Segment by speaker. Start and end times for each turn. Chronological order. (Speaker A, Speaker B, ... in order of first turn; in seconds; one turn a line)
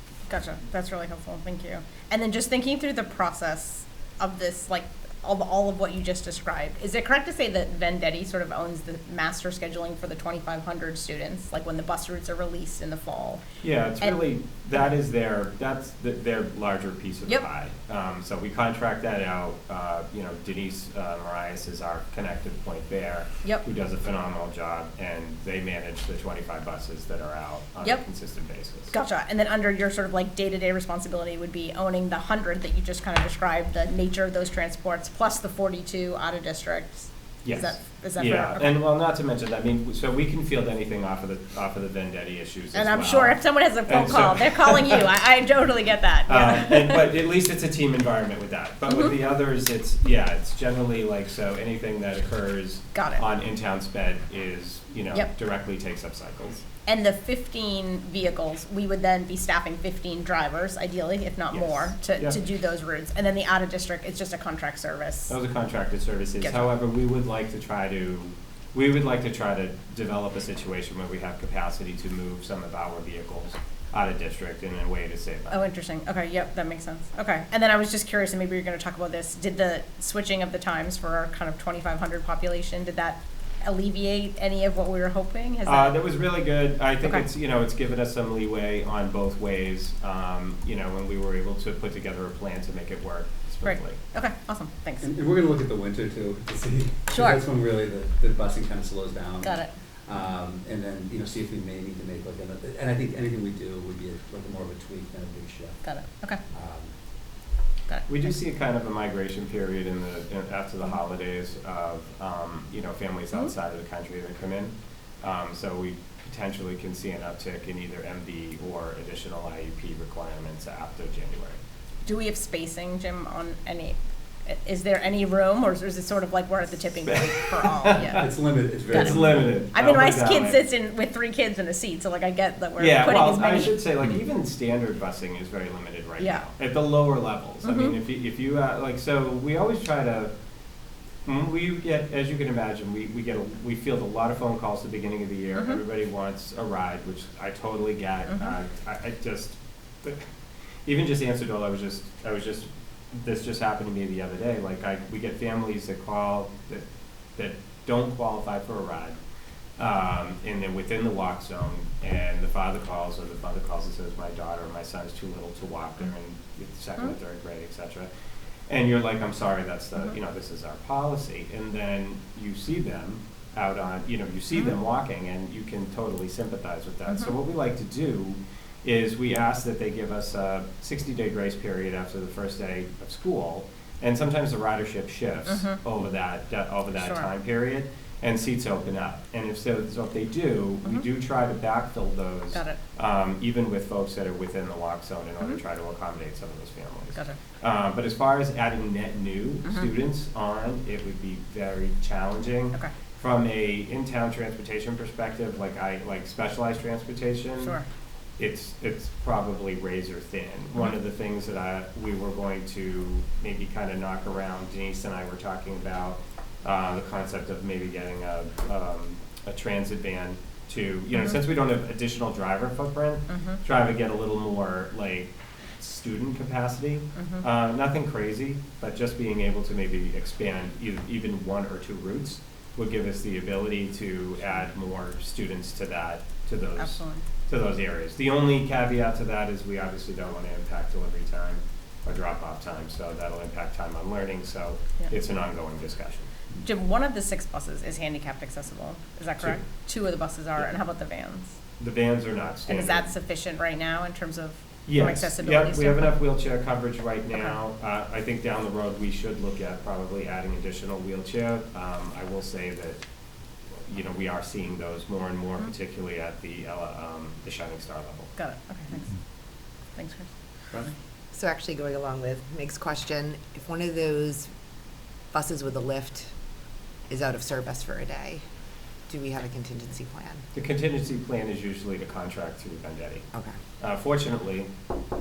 Speaker A: 0.3-13.4
Speaker B: 13.6-28.9
Speaker A: 28.9-38.7
Speaker B: 37.5-45.0
Speaker A: 42.7-47.1
Speaker B: 46.3-56.6
Speaker A: 48.9-49.1
Speaker A: 52.9-53.2
Speaker A: 56.9-65.3
Speaker B: 61.5-62.4
Speaker B: 65.3-75.6
Speaker A: 75.5-86.0
Speaker B: 85.7-94.0
Speaker A: 93.6-95.1
Speaker C: 95.0-105.8
Speaker A: 97.1-97.4
Speaker A: 99.4-99.7
Speaker A: 105.8-106.4
Speaker C: 106.5-106.9
Speaker B: 108.1-121.6
Speaker A: 122.0-128.3
Speaker B: 127.1-128.2
Speaker C: 128.1-129.6
Speaker A: 128.9-133.7
Speaker B: 128.9-130.6
Speaker B: 132.8-140.3
Speaker A: 136.2-136.5
Speaker A: 137.6-138.0
Speaker B: 141.3-150.2
Speaker B: 150.9-156.8
Speaker B: 157.4-159.2
Speaker B: 159.8-168.1
Speaker B: 168.7-207.8
Speaker A: 185.5-185.8
Speaker A: 187.0-187.3
Speaker A: 192.5-192.8
Speaker A: 199.7-199.9
Speaker B: 208.4-246.3
Speaker A: 223.3-223.6
Speaker A: 227.2-227.4
Speaker A: 236.8-237.2
Speaker A: 246.6-251.5
Speaker B: 251.8-253.1
Speaker A: 252.7-256.2
Speaker B: 254.9-263.0
Speaker B: 263.9-268.3
Speaker A: 268.4-269.2
Speaker A: 269.9-270.3
Speaker D: 271.3-274.5
Speaker D: 275.3-276.3
Speaker D: 277.1-278.4
Speaker D: 279.1-280.4
Speaker B: 280.5-283.3
Speaker B: 283.8-284.7